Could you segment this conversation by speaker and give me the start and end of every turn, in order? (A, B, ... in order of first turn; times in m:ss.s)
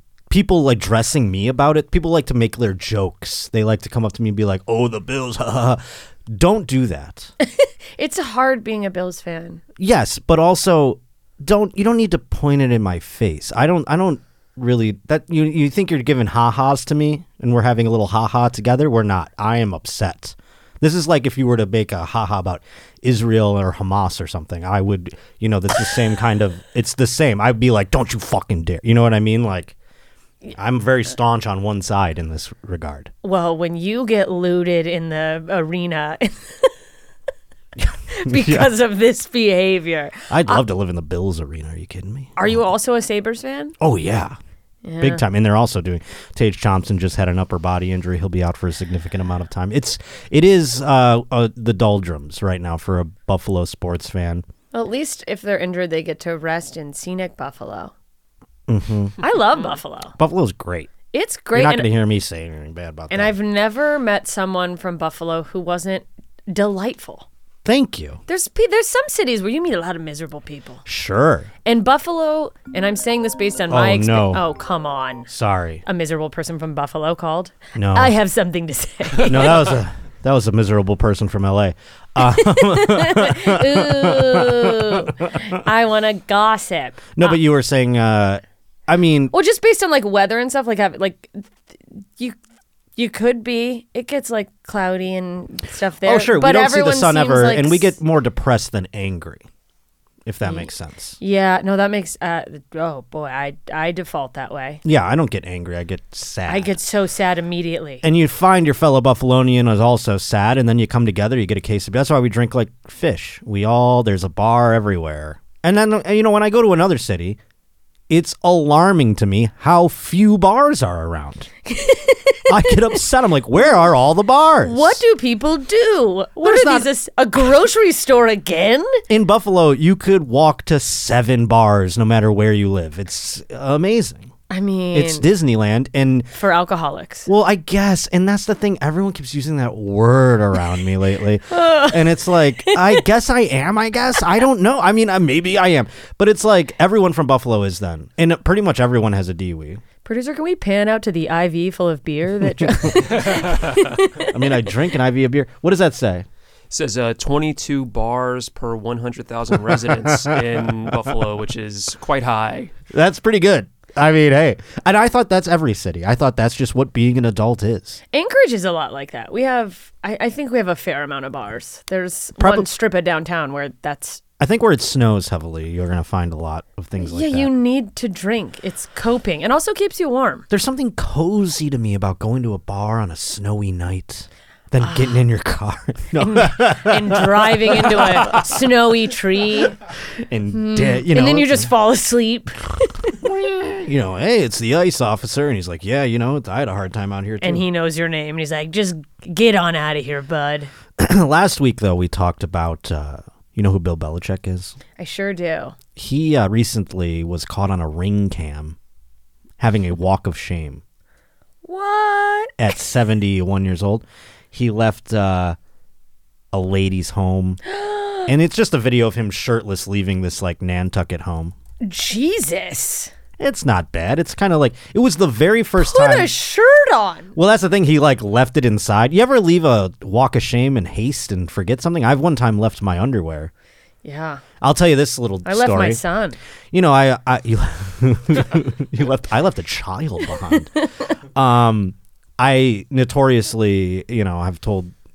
0:00.3-0:07.3 A
0:07.4-0:09.6 B
0:09.8-0:29.8 A
0:30.5-0:33.1 A
0:33.2-0:36.7 B
0:37.8-0:38.7 A
0:38.1-0:40.6 B
0:40.3-0:42.6 A
0:42.4-0:43.8 B
0:43.8-0:44.4 A
0:44.8-0:45.2 B
0:45.0-0:54.4 A
0:54.7-0:57.9 B
0:58.7-0:59.2 A
0:59.2-1:00.1 B
1:00.2-1:00.9 A
1:01.1-1:01.9 B
1:01.5-1:03.4 A
1:03.1-1:07.3 B
1:07.6-1:08.2 A
1:08.3-1:10.8 B
1:10.8-1:11.5 A
1:11.6-1:15.3 B
1:13.7-1:14.4 A
1:15.3-1:15.8 A
1:15.9-1:19.8 B
1:17.8-1:18.2 A
1:19.2-1:25.5 A
1:22.2-1:27.4 B
1:27.2-1:29.3 A
1:29.3-1:32.4 B
1:33.0-1:38.0 B
1:36.0-1:39.4 A
1:40.2-1:41.2 A
1:40.4-1:44.8 B
1:44.8-1:46.7 A
1:46.5-1:48.0 B
1:48.0-1:57.4 A
1:58.1-2:01.5 A
2:01.6-2:02.8 B
2:02.5-2:05.0 A
2:04.6-2:09.0 B
2:06.4-2:06.9 A
2:09.1-2:14.3 A
2:14.5-2:15.3 B
2:14.9-2:16.3 A
2:16.3-2:17.3 B
2:17.3-2:29.8 A
2:21.5-2:23.0 B
2:30.0-2:34.7 B
2:32.6-2:33.0 A
2:33.2-2:33.7 C
2:34.2-2:36.2 A
2:36.7-2:42.7 C
2:39.7-2:40.6 A
2:42.9-2:48.0 A
2:48.1-2:54.2 B
2:52.4-2:52.7 A
2:54.4-2:57.5 A
2:57.0-3:00.5 B
3:00.5-3:08.5 A
3:04.8-3:05.2 B
3:06.2-3:09.8 B
3:10.2-3:11.7 A
3:10.5-3:13.1 B
3:13.2-3:17.6 A
3:17.4-3:20.7 B
3:21.0-3:24.8 A
3:25.0-3:25.8 B
3:26.0-3:28.8 A
3:29.6-3:30.8 A
3:31.6-3:32.8 B
3:32.6-3:35.6 A
3:36.5-3:37.6 A
3:37.6-3:38.3 B
3:38.2-3:41.5 A
3:41.8-3:43.1 B
3:43.4-3:46.3 A
3:45.8-3:47.3 B
3:47.4-3:53.5 A
3:54.0-3:54.4 B
3:54.6-3:56.0 A
3:55.4-3:56.4 B
3:56.7-4:00.8 A
4:01.4-4:04.9 A